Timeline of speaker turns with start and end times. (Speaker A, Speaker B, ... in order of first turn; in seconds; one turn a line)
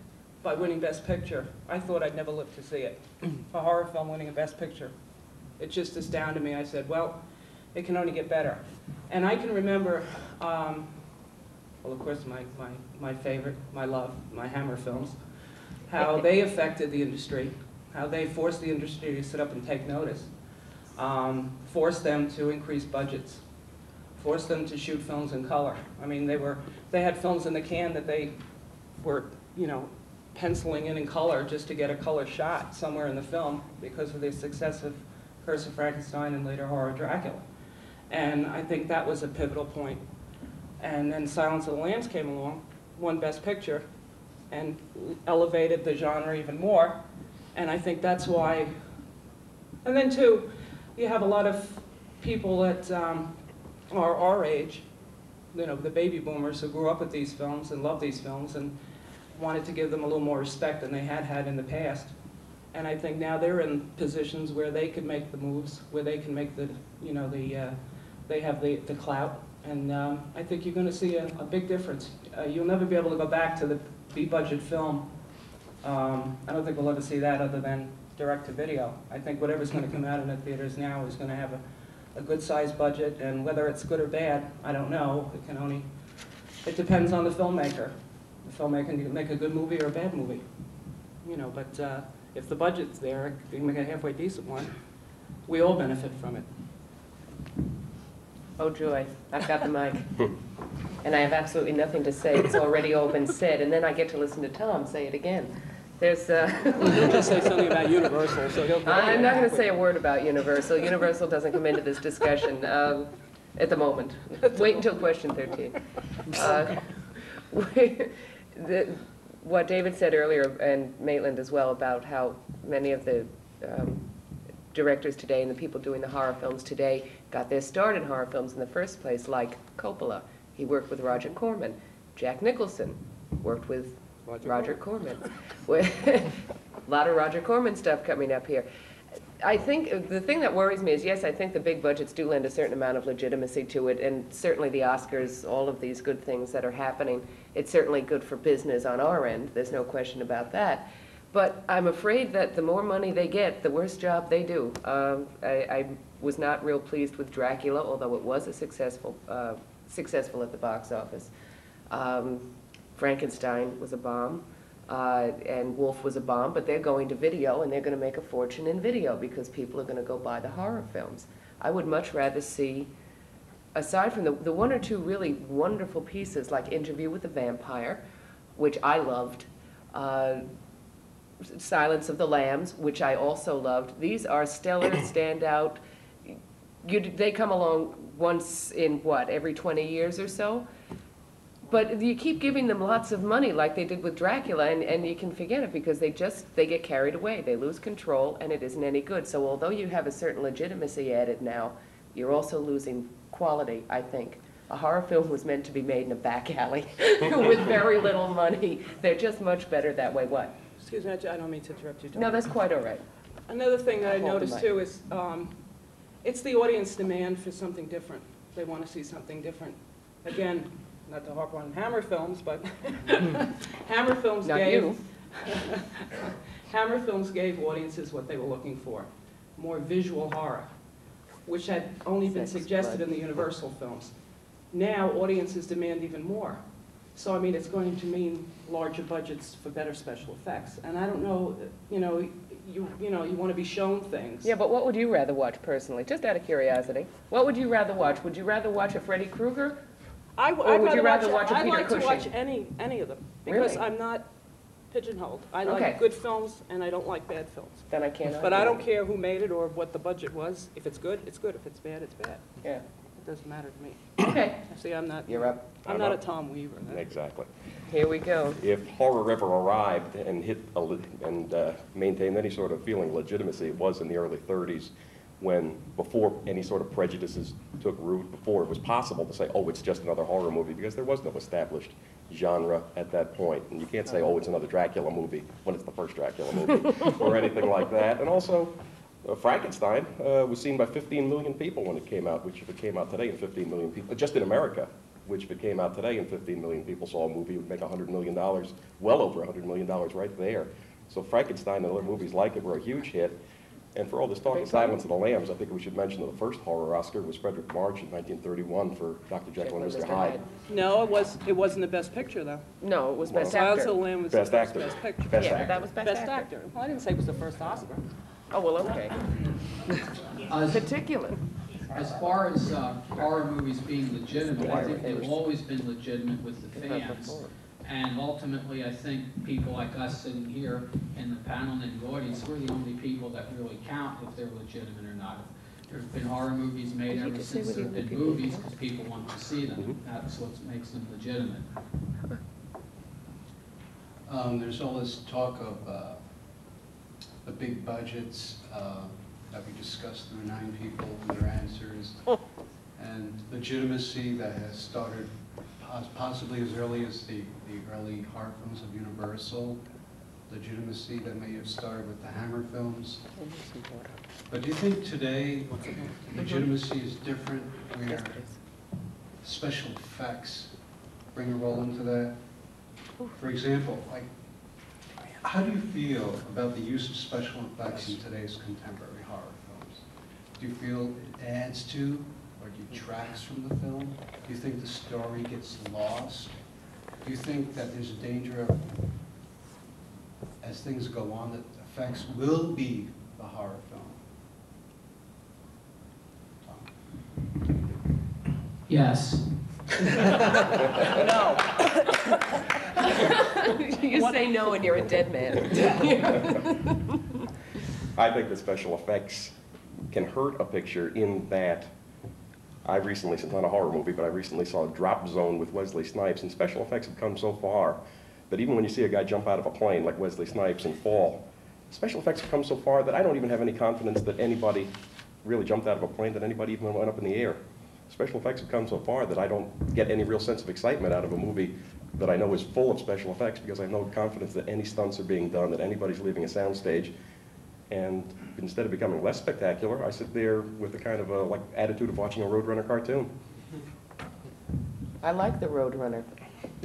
Speaker A: 0.4-4.9
Speaker A: 5.6-11.0
Speaker A: 11.8-15.3
Speaker A: 15.9-20.4
Speaker A: 20.9-23.5
Speaker A: 24.1-28.4
Speaker A: 29.0-37.5
Speaker A: 38.1-40.0
Speaker A: 40.8-43.9
Speaker A: 44.5-49.0
Speaker A: 49.8-54.9
Speaker A: 55.5-58.8
Speaker A: 59.3-62.1
Speaker A: 62.7-75.2
Speaker A: 75.7-94.9
Speaker A: 95.5-96.5
Speaker B: 98.6-100.1
Speaker B: 101.0-107.2
Speaker A: 106.8-109.8
Speaker B: 108.8-115.8
Speaker A: 114.4-115.1
Speaker B: 116.3-124.1
Speaker A: 116.4-116.8
Speaker B: 124.7-138.7
Speaker A: 134.3-134.8
Speaker B: 139.4-161.3
Speaker B: 161.9-172.9
Speaker B: 173.8-178.0
Speaker B: 178.6-180.4
Speaker B: 181.4-190.7
Speaker B: 191.6-210.5
Speaker A: 210.8-212.6
Speaker B: 212.1-213.1
Speaker A: 213.5-215.7
Speaker B: 214.0-214.7
Speaker A: 216.2-230.7
Speaker B: 224.4-225.0
Speaker A: 231.4-244.5
Speaker B: 232.3-233.0
Speaker B: 244.4-249.8
Speaker A: 250.4-254.3
Speaker B: 250.6-252.3
Speaker B: 253.5-253.8
Speaker A: 254.9-262.6
Speaker B: 255.6-256.0
Speaker B: 257.9-258.9
Speaker A: 263.1-267.1
Speaker B: 264.2-264.7
Speaker B: 265.3-265.6
Speaker C: 265.8-266.2
Speaker C: 266.8-267.5
Speaker B: 267.9-268.6
Speaker C: 268.6-303.4
Speaker C: 303.9-310.4
Speaker B: 304.5-304.9
Speaker B: 309.6-310.5
Speaker A: 310.6-312.6
Speaker B: 312.8-314.1
Speaker C: 313.2-315.8
Speaker A: 313.4-318.1
Speaker B: 315.4-316.5
Speaker B: 318.5-319.2
Speaker A: 318.8-320.0
Speaker D: 320.5-320.9
Speaker B: 320.7-321.5
Speaker D: 321.9-341.6
Speaker B: 324.6-325.4
Speaker C: 324.7-325.1
Speaker B: 326.8-327.5
Speaker B: 337.1-338.7
Speaker E: 344.3-346.2
Speaker E: 347.4-352.3
Speaker E: 352.9-359.8
Speaker E: 360.5-363.3
Speaker B: 363.4-364.1
Speaker E: 364.5-368.7
Speaker B: 368.1-368.6
Speaker E: 369.4-372.8
Speaker E: 373.4-374.3
Speaker E: 375.3-386.6
Speaker E: 387.2-389.1
Speaker E: 390.6-394.2
Speaker E: 396.6-396.9
Speaker D: 398.9-399.4
Speaker A: 401.0-402.0
Speaker B: 403.5-406.9
Speaker A: 404.1-404.5
Speaker C: 408.1-409.6
Speaker C: 410.1-411.9
Speaker C: 412.9-418.0
Speaker C: 418.5-424.9
Speaker C: 425.4-437.1
Speaker C: 437.9-443.3
Speaker B: 445.2-446.4